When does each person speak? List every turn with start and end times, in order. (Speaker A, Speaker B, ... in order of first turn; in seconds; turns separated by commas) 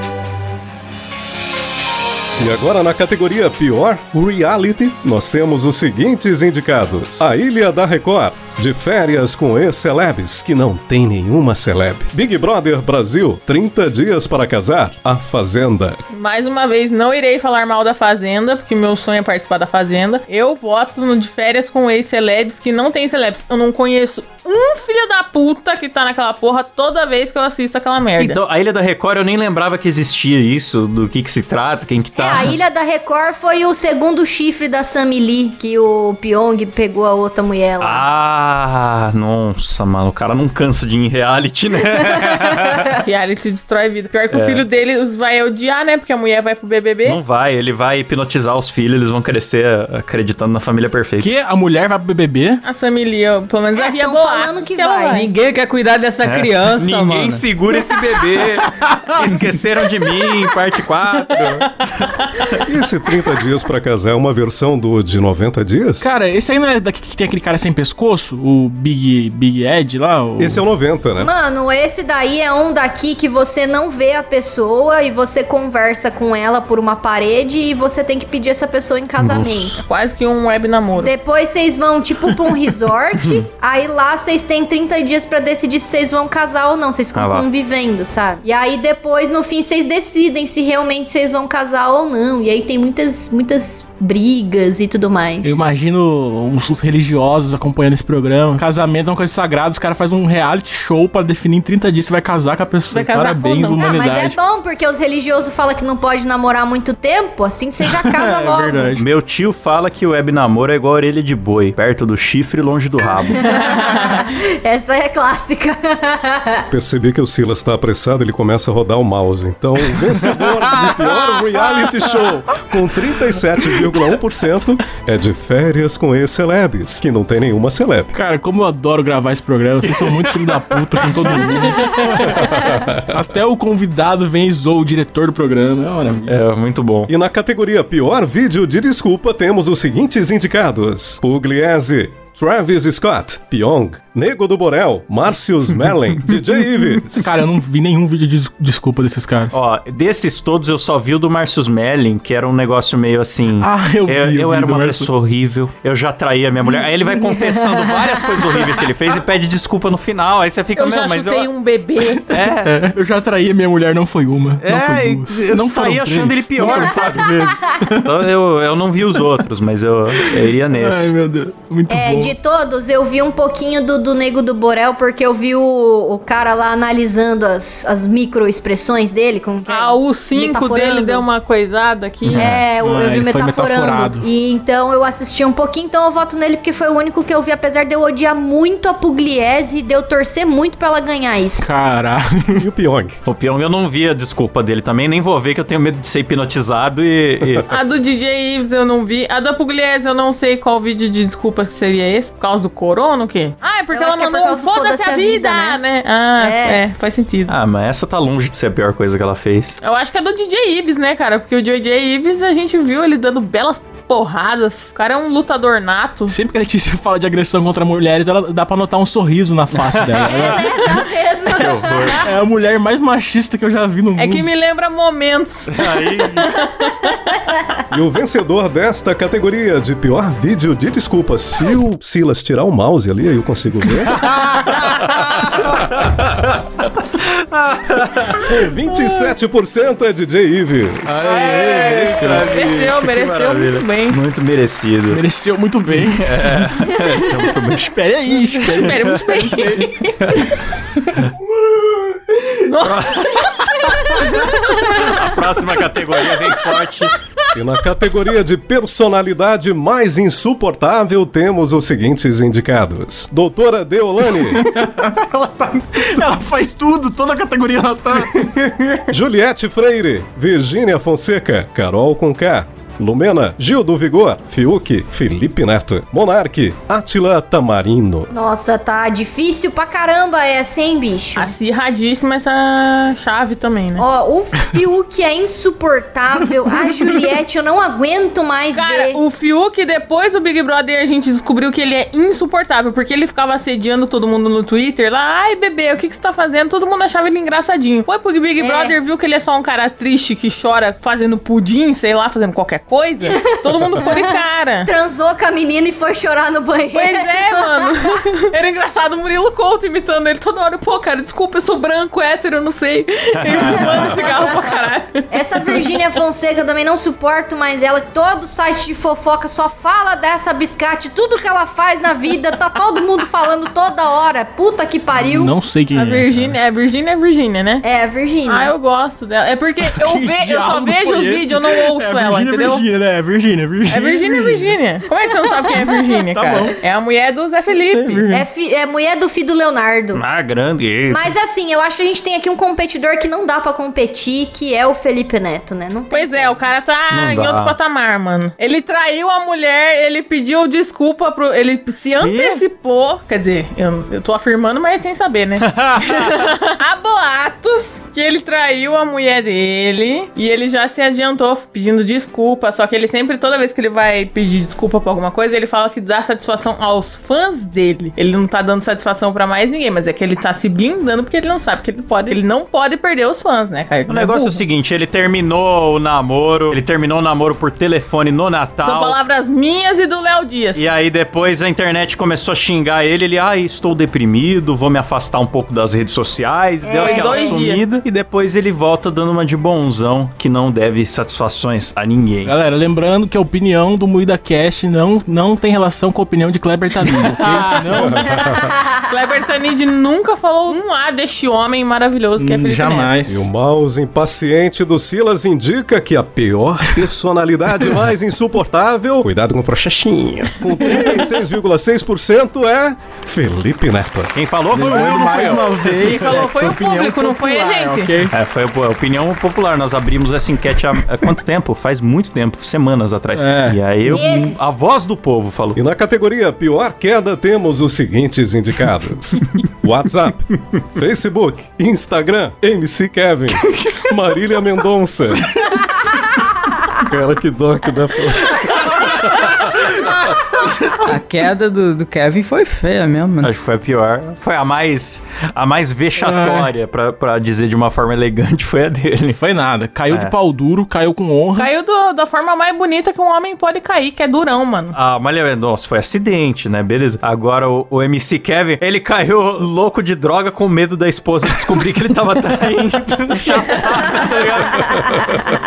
Speaker A: 2.4-16.0, Speaker B: 16.1-28.4, Speaker C: 28.2-32.5, Speaker D: 32.1-38.0, Speaker C: 37.8-42.9, Speaker B: 43.0-47.2, Speaker C: 44.3-44.6, Speaker C: 47.0-51.3, Speaker E: 51.2-52.6, Speaker B: 52.6-55.3, Speaker D: 53.7-55.2, Speaker F: 55.1-57.5, Speaker C: 56.2-62.6, Speaker A: 62.6-66.1, Speaker E: 66.0-70.6, Speaker A: 70.4-71.3, Speaker D: 71.2-79.8, Speaker C: 79.2-79.8, Speaker B: 79.8-81.1, Speaker D: 81.0-95.6, Speaker C: 87.1-87.5, Speaker E: 95.4-104.4, Speaker B: 102.9-103.8, Speaker D: 103.8-108.9, Speaker E: 107.9-109.0, Speaker C: 109.0-113.5, Speaker D: 113.3-116.6, Speaker B: 113.5-114.2, Speaker A: 116.7-128.1, Speaker E: 128.1-136.3, Speaker C: 129.9-130.6, Speaker A: 132.5-133.0, Speaker C: 136.3-137.1, Speaker A: 137.1-147.3, Speaker E: 147.1-149.6, Speaker C: 149.5-161.5, Speaker E: 153.6-155.1, Speaker B: 160.8-162.3, Speaker C: 162.3-162.7, Speaker E: 162.4-168.1, Speaker C: 164.6-171.1, Speaker D: 166.6-167.6, Speaker E: 170.2-172.3, Speaker D: 171.9-181.2, Speaker B: 179.7-182.5, Speaker E: 182.2-184.2, Speaker C: 182.3-182.6, Speaker D: 182.4-191.6, Speaker E: 191.6-192.6, Speaker A: 192.6-193.2, Speaker C: 193.2-197.7, Speaker B: 197.7-207.5, Speaker D: 203.9-205.8, Speaker D: 206.4-206.8, Speaker C: 207.5-209.8, Speaker B: 209.8-216.3, Speaker E: 216.3-220.9, Speaker C: 219.8-220.7, Speaker D: 220.2-222.2, Speaker C: 221.5-222.3, Speaker E: 222.2-224.5, Speaker B: 224.2-227.1, Speaker C: 225.7-226.5, Speaker A: 227.9-234.3, Speaker C: 234.3-236.6, Speaker C: 237.2-238.5, Speaker A: 238.4-241.3, Speaker C: 241.1-245.2, Speaker B: 241.2-244.2, Speaker E: 241.3-242.5, Speaker E: 245.1-246.7, Speaker C: 246.0-249.2, Speaker E: 247.9-250.5, Speaker B: 248.7-250.2, Speaker B: 252.6-255.1, Speaker C: 252.8-257.1, Speaker A: 257.5-264.6, Speaker E: 264.6-265.1, Speaker C: 265.0-266.0, Speaker E: 266.0-268.5, Speaker A: 269.1-278.3, Speaker D: 278.3-281.5, Speaker B: 281.4-284.0, Speaker D: 284.0-289.2, Speaker B: 288.7-304.9, Speaker D: 298.6-298.9, Speaker D: 303.2-308.1, Speaker B: 306.9-315.3, Speaker C: 313.4-314.2, Speaker D: 315.3-325.5, Speaker E: 325.2-326.5, Speaker B: 325.9-327.8, Speaker D: 327.8-328.7, Speaker B: 328.5-332.8, Speaker E: 329.8-334.7, Speaker B: 333.9-338.2, Speaker E: 336.3-336.8, Speaker E: 337.7-338.4, Speaker D: 338.3-340.2, Speaker C: 340.1-341.3, Speaker D: 341.1-346.6, Speaker B: 346.1-374.6, Speaker C: 347.1-347.8, Speaker E: 352.2-352.6, Speaker C: 355.6-356.3, Speaker C: 374.1-379.2, Speaker B: 378.8-380.9, Speaker C: 380.8-392.5, Speaker D: 386.8-387.6, Speaker B: 386.9-387.8, Speaker E: 392.4-398.2, Speaker A: 398.0-398.5, Speaker B: 398.9-403.2, Speaker E: 402.4-403.5, Speaker A: 403.2-414.3, Speaker E: 410.8-411.1, Speaker C: 414.3-416.3, Speaker E: 414.7-418.3, Speaker B: 415.9-418.2, Speaker C: 418.3-425.8, Speaker E: 423.4-424.2, Speaker D: 424.1-424.7, Speaker A: 425.7-435.6, Speaker A: 437.0-438.8, Speaker C: 438.5-439.1, Speaker F: 441.0-443.5, Speaker C: 443.4-449.4, Speaker E: 446.2-446.7, Speaker E: 449.3-451.7, Speaker B: 451.6-454.9, Speaker C: 454.9-465.2